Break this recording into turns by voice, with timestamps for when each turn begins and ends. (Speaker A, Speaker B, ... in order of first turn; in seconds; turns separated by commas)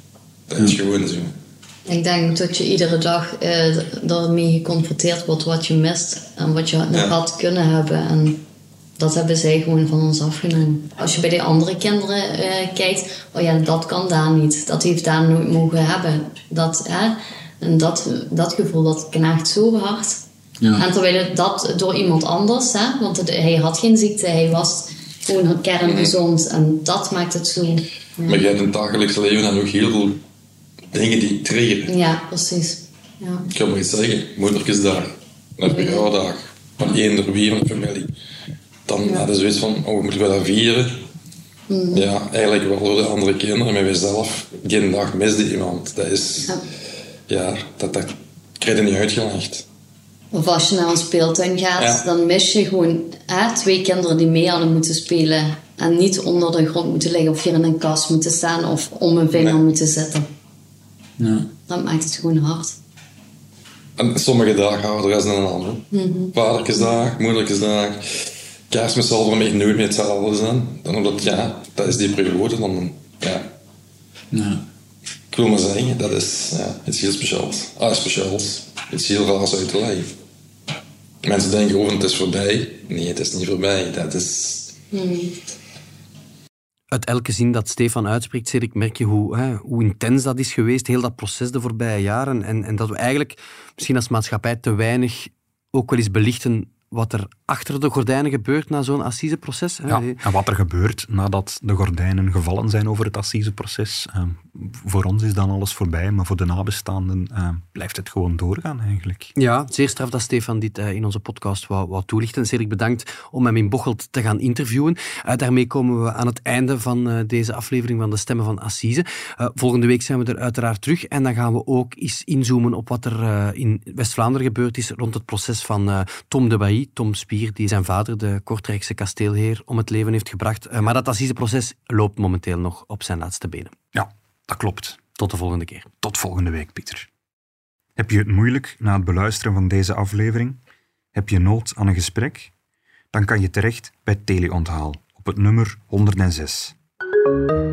Speaker A: 0.5-1.3, Speaker B: 1.9-8.4, Speaker A: 6.9-7.2, Speaker B: 9.0-20.2, Speaker B: 20.8-28.4, Speaker A: 25.8-26.1, Speaker A: 28.3-30.2, Speaker A: 30.9-31.9, Speaker B: 31.9-33.4, Speaker A: 33.5-38.1, Speaker B: 35.7-36.1, Speaker A: 38.9-41.0, Speaker B: 41.7-42.1, Speaker A: 41.9-46.6, Speaker A: 47.3-49.6, Speaker B: 50.3-60.3, Speaker A: 51.8-52.0, Speaker A: 59.4-59.6, Speaker C: 61.2-61.5, Speaker B: 61.7-62.8, Speaker A: 64.0-73.5, Speaker B: 65.9-66.3, Speaker C: 74.3-74.6, Speaker A: 75.3-80.2, Speaker A: 81.2-84.8, Speaker B: 84.9-85.3, Speaker D: 86.9-100.2, Speaker C: 99.9-109.3, Speaker D: 109.4-133.7, Speaker C: 133.9-135.0, Speaker D: 135.2-135.9, Speaker C: 136.0-137.1, Speaker C: 138.0-140.6, Speaker C: 141.1-142.5, Speaker C: 143.1-146.8